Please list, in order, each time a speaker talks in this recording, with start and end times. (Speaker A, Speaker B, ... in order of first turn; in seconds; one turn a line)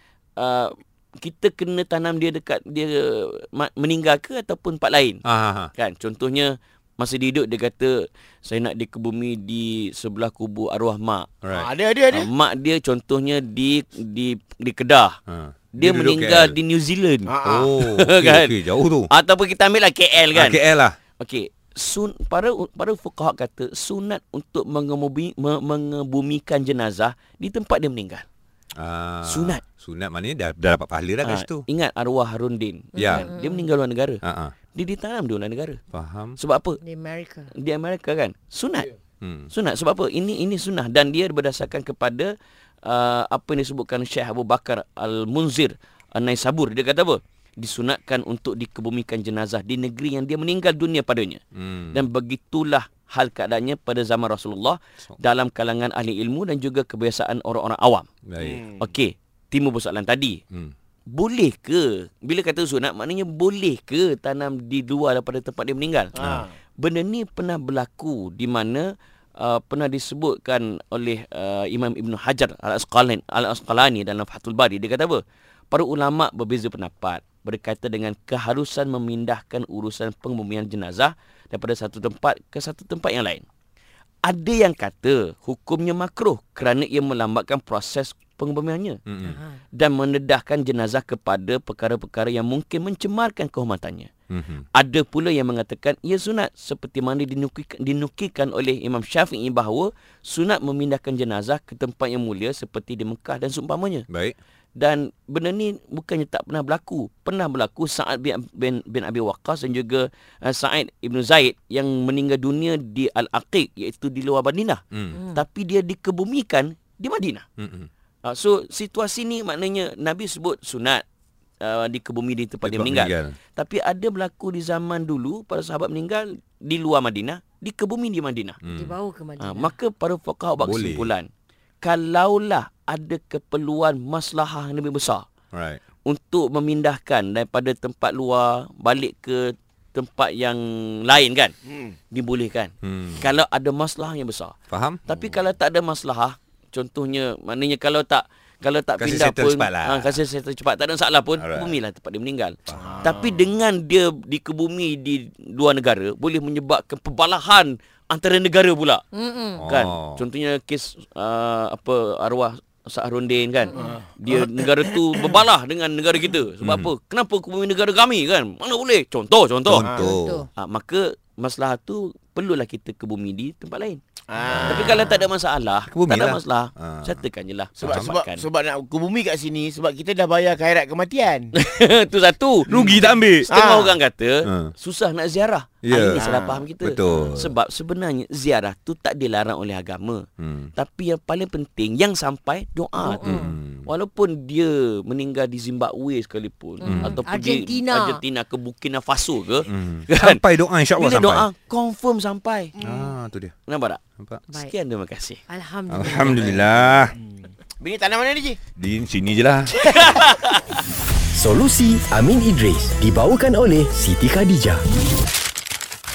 Speaker A: 0.4-5.2
Speaker B: 5.2-5.7
Speaker A: 5.7-11.3
Speaker B: 11.4-11.7
Speaker C: 11.5-12.3
Speaker A: 12.1-15.2
Speaker B: 15.3-16.5
Speaker A: 15.7-18.6
Speaker C: 17.2-17.8
Speaker B: 17.4-19.1
Speaker A: 19.1-20.6
Speaker B: 20.3-20.9
Speaker A: 21.2-28.2
Speaker B: 28.8-31.6
Speaker A: 29.2-29.6
Speaker A: 31.2-34.2
Speaker D: 33.0-33.7
Speaker B: 33.0-33.2
Speaker B: 34.2-34.5
Speaker A: 34.7-35.8
Speaker B: 35.9-36.4
Speaker A: 36.4-36.8
Speaker D: 36.8-37.5
Speaker A: 37.5-38.9
Speaker B: 39.2-39.5
Speaker A: 39.5-42.3
Speaker A: 42.8-58.1
Speaker B: 51.5-52.0
Speaker B: 58.3-58.6
Speaker C: 58.4-58.9
Speaker A: 58.8-60.4
Speaker A: 61.1-66.2
Speaker C: 66.2-66.5
Speaker A: 66.8-83.4
Speaker A: 84.2-89.0
Speaker B: 89.1-89.4
Speaker D: 89.2-89.6
Speaker A: 89.7-94.1
Speaker B: 94.3-94.6
Speaker A: 94.7-104.0
Speaker B: 104.1-104.3
Speaker A: 104.8-117.4
Speaker D: 115.1-115.4
Speaker B: 117.6-117.9
Speaker A: 118.2-121.0
Speaker A: 121.6-128.6
Speaker B: 122.6-123.3
Speaker B: 128.6-128.9
Speaker D: 128.7-129.7
Speaker A: 129.4-131.3
Speaker B: 130.6-131.1
Speaker A: 131.8-135.2
Speaker B: 135.5-135.8
Speaker A: 136.0-141.5
Speaker A: 142.1-144.5
Speaker B: 142.8-143.2
Speaker B: 144.7-145.0
Speaker A: 145.1-159.0
Speaker B: 149.0-150.2
Speaker B: 151.4-151.8
Speaker B: 152.7-153.0
Speaker C: 152.7-153.4
Speaker D: 159.1-159.6
Speaker B: 159.6-160.2
Speaker A: 159.7-169.9
Speaker D: 163.7-164.0
Speaker C: 163.8-165.3
Speaker B: 166.6-166.9
Speaker B: 169.7-170.4
Speaker C: 169.8-170.1
Speaker D: 170.0-170.5
Speaker A: 170.5-174.0
Speaker C: 174.3-175.1
Speaker B: 174.5-174.9
Speaker A: 174.7-178.4
Speaker B: 175.9-177.2
Speaker C: 177.8-181.5
Speaker B: 177.8-178.1
Speaker A: 181.6-200.4
Speaker C: 182.7-184.0
Speaker B: 182.7-183.5
Speaker B: 184.4-184.7
Speaker B: 185.8-186.3
Speaker C: 186.1-186.7
Speaker B: 186.8-187.5
Speaker B: 190.4-190.7
Speaker D: 193.0-193.6
Speaker B: 193.2-193.8
Speaker D: 196.8-198.2
Speaker B: 196.8-197.2
Speaker B: 199.7-201.5
Speaker A: 200.9-202.8
Speaker B: 202.8-203.5
Speaker A: 203.7-205.4
Speaker D: 205.5-206.7
Speaker B: 205.9-207.1
Speaker C: 207.1-208.6
Speaker B: 208.8-209.8
Speaker A: 209.8-210.8
Speaker C: 209.9-210.2
Speaker E: 211.3-214.8